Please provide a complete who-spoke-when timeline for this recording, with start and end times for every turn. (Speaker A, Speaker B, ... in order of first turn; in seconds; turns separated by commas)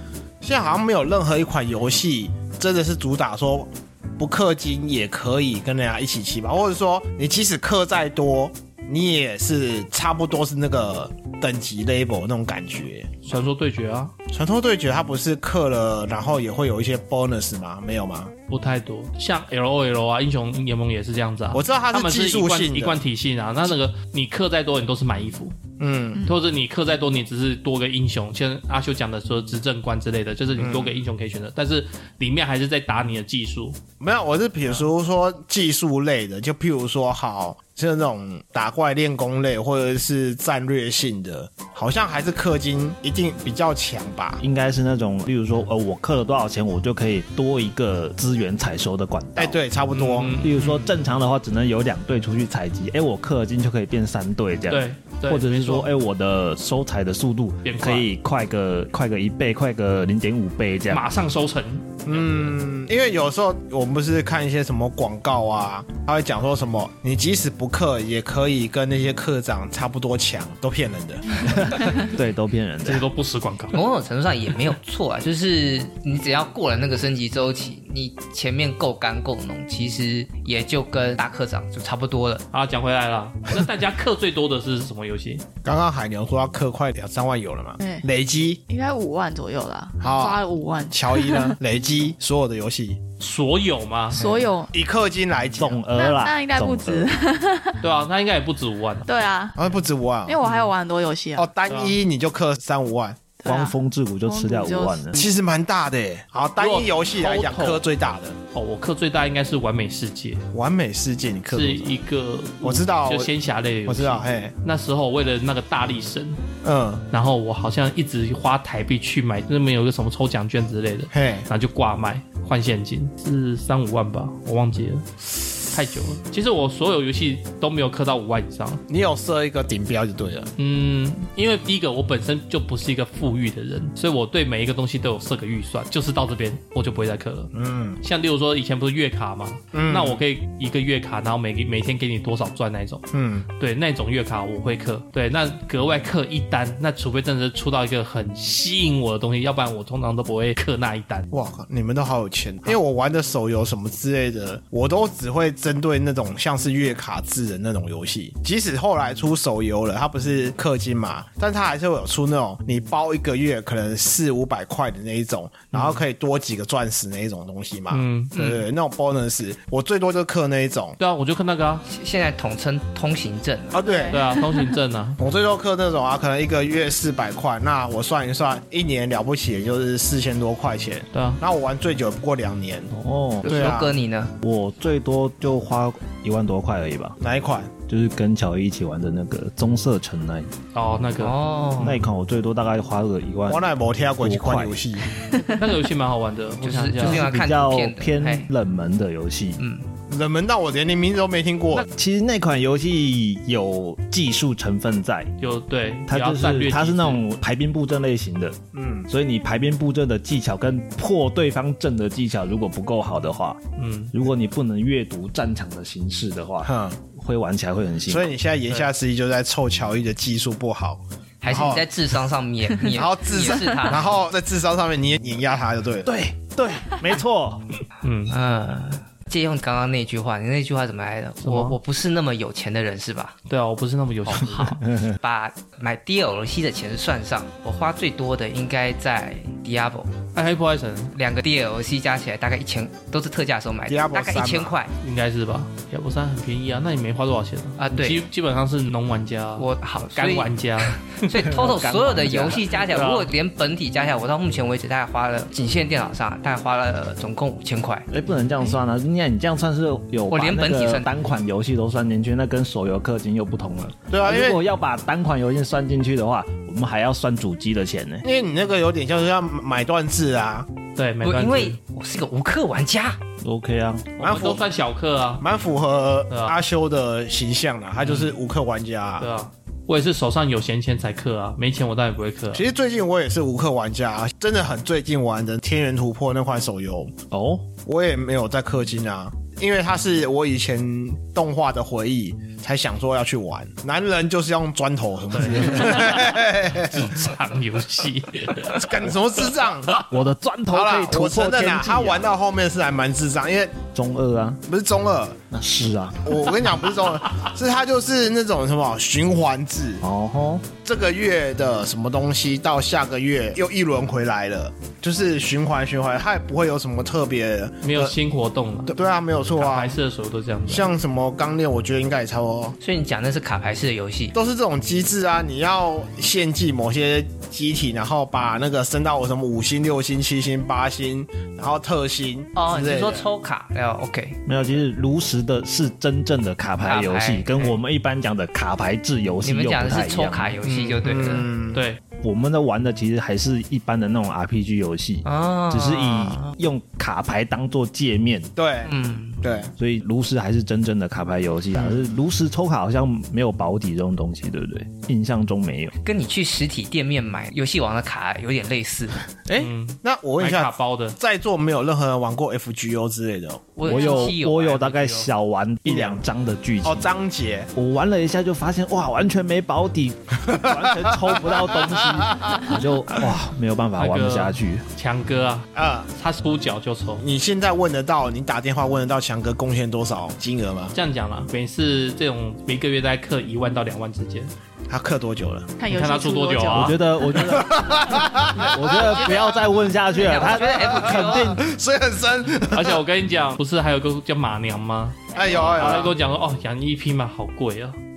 Speaker A: 0.4-13.1, Speaker B: 13.2-14.1, Speaker A: 14.3-18.3, Speaker B: 18.5-25.6, Speaker A: 21.5-23.0, Speaker A: 25.8-26.3, Speaker B: 26.2-33.8, Speaker A: 30.6-30.9, Speaker A: 34.0-44.4, Speaker C: 44.4-49.6, Speaker A: 49.4-51.0, Speaker B: 49.9-50.6, Speaker C: 50.4-61.0, Speaker B: 54.7-55.9, Speaker B: 57.6-58.1, Speaker B: 60.9-62.6, Speaker A: 62.1-71.8, Speaker C: 71.5-73.1, Speaker B: 72.8-73.8, Speaker D: 73.7-82.5, Speaker B: 82.5-85.5, Speaker A: 85.6-88.6, Speaker E: 87.8-88.0, Speaker E: 88.7-91.6, Speaker A: 90.0-93.0, Speaker B: 93.2-94.3, Speaker E: 94.1-94.7, Speaker A: 94.7-95.9, Speaker C: 95.6-97.1, Speaker E: 96.0-97.8, Speaker B: 97.8-99.1, Speaker E: 99.1-99.6, Speaker A: 99.6-100.4, Speaker E: 100.3-101.5, Speaker A: 101.4-103.3, Speaker B: 101.7-102.0, Speaker E: 103.4-105.2, Speaker C: 103.5-105.2, Speaker A: 105.2-108.4, Speaker B: 106.6-107.8, Speaker B: 108.5-110.4, Speaker A: 110.5-112.0, Speaker B: 111.5-116.4, Speaker A: 112.6-113.3, Speaker A: 113.9-114.5, Speaker A: 116.6-117.0, Speaker B: 117.1-128.8, Speaker A: 121.1-121.5, Speaker A: 128.9-130.5, Speaker B: 130.6-143.1, Speaker A: 137.5-138.0, Speaker A: 139.7-140.2, Speaker A: 143.1-143.5, Speaker B: 143.6-151.3, Speaker A: 151.3-171.0, Speaker B: 165.7-166.0, Speaker B: 167.9-168.3, Speaker D: 168.3-168.6, Speaker B: 171.0-171.8, Speaker D: 171.9-173.8, Speaker A: 173.7-174.2, Speaker E: 173.8-174.4, Speaker B: 174.1-175.2, Speaker A: 175.2-182.9, Speaker B: 181.1-181.4, Speaker C: 182.9-183.7, Speaker D: 183.4-184.3, Speaker A: 183.5-184.0, Speaker C: 184.4-187.2, Speaker A: 187.2-187.7, Speaker C: 187.9-190.5, Speaker B: 190.7-192.0, Speaker D: 191.2-192.0, Speaker C: 191.8-193.6, Speaker A: 193.5-195.1, Speaker C: 194.2-194.8, Speaker B: 195.3-197.3, Speaker D: 196.6-198.5, Speaker C: 197.0-199.6, Speaker D: 199.6-199.9, Speaker A: 200.1-201.9, Speaker C: 201.9-205.3, Speaker B: 205.4-207.2, Speaker C: 206.1-213.6, Speaker A: 208.7-209.1, Speaker B: 213.8-214.1, Speaker C: 214.1-218.3, Speaker A: 216.6-217.0, Speaker A: 218.1-221.9, Speaker D: 221.4-224.1, Speaker A: 222.9-226.1, Speaker C: 226.1-227.7, Speaker B: 228.0-228.3, Speaker D: 228.3-233.4, Speaker B: 231.4-231.8, Speaker B: 233.5-234.8, Speaker D: 234.3-240.2, Speaker C: 234.6-235.2, Speaker B: 240.3-241.1, Speaker D: 241.1-244.9, Speaker A: 243.9-244.8, Speaker B: 245.0-251.2, Speaker D: 247.8-248.2, Speaker D: 249.6-258.1, Speaker C: 251.4-252.7, Speaker B: 252.7-253.3, Speaker C: 258.1-268.3, Speaker D: 260.3-261.1, Speaker A: 264.1-264.6, Speaker A: 268.2-270.7, Speaker B: 271.0-271.8, Speaker D: 271.2-273.2, Speaker C: 273.4-274.2, Speaker B: 274.2-275.4, Speaker A: 274.2-274.6, Speaker A: 275.4-279.3, Speaker B: 276.3-276.6, Speaker B: 279.2-282.6, Speaker A: 282.5-287.1, Speaker C: 287.3-287.7, Speaker A: 287.8-297.3, Speaker B: 295.3-300.1, Speaker A: 298.7-300.0, Speaker C: 300.1-302.3, Speaker A: 300.7-303.8, Speaker C: 303.9-304.6, Speaker A: 304.7-305.4, Speaker C: 305.5-306.4, Speaker A: 306.2-310.0, Speaker C: 310.0-310.7, Speaker A: 310.8-318.1, Speaker B: 317.8-318.9, Speaker A: 318.9-320.0, Speaker B: 319.6-320.9, Speaker A: 320.7-322.8, Speaker D: 322.8-324.4, Speaker A: 324.4-333.3, Speaker D: 332.6-334.4, Speaker C: 334.5-340.6, Speaker D: 336.8-337.7, Speaker D: 339.4-341.5, Speaker A: 340.7-341.8, Speaker B: 341.7-342.0, Speaker C: 342.2-348.5, Speaker D: 345.2-346.6, Speaker A: 348.6-349.7, Speaker D: 348.9-349.5, Speaker C: 349.8-355.9, Speaker A: 351.7-352.2, Speaker D: 356.0-359.2, Speaker B: 359.6-361.2, Speaker A: 360.0-363.7, Speaker D: 363.8-364.9, Speaker C: 363.9-367.1, Speaker B: 364.7-365.3, Speaker B: 365.9-366.2, Speaker A: 366.8-367.7, Speaker C: 367.8-374.9, Speaker A: 371.1-371.4, Speaker A: 372.2-372.5, Speaker B: 374.0-377.2, Speaker A: 375.8-376.1, Speaker A: 377.2-380.9, Speaker B: 380.9-384.5, Speaker A: 384.9-385.8, Speaker E: 385.8-387.0, Speaker B: 385.9-387.0, Speaker C: 386.7-391.6, Speaker A: 387.3-389.6, Speaker D: 390.1-391.5, Speaker A: 390.8-393.0, Speaker B: 392.7-398.0, Speaker A: 395.3-396.1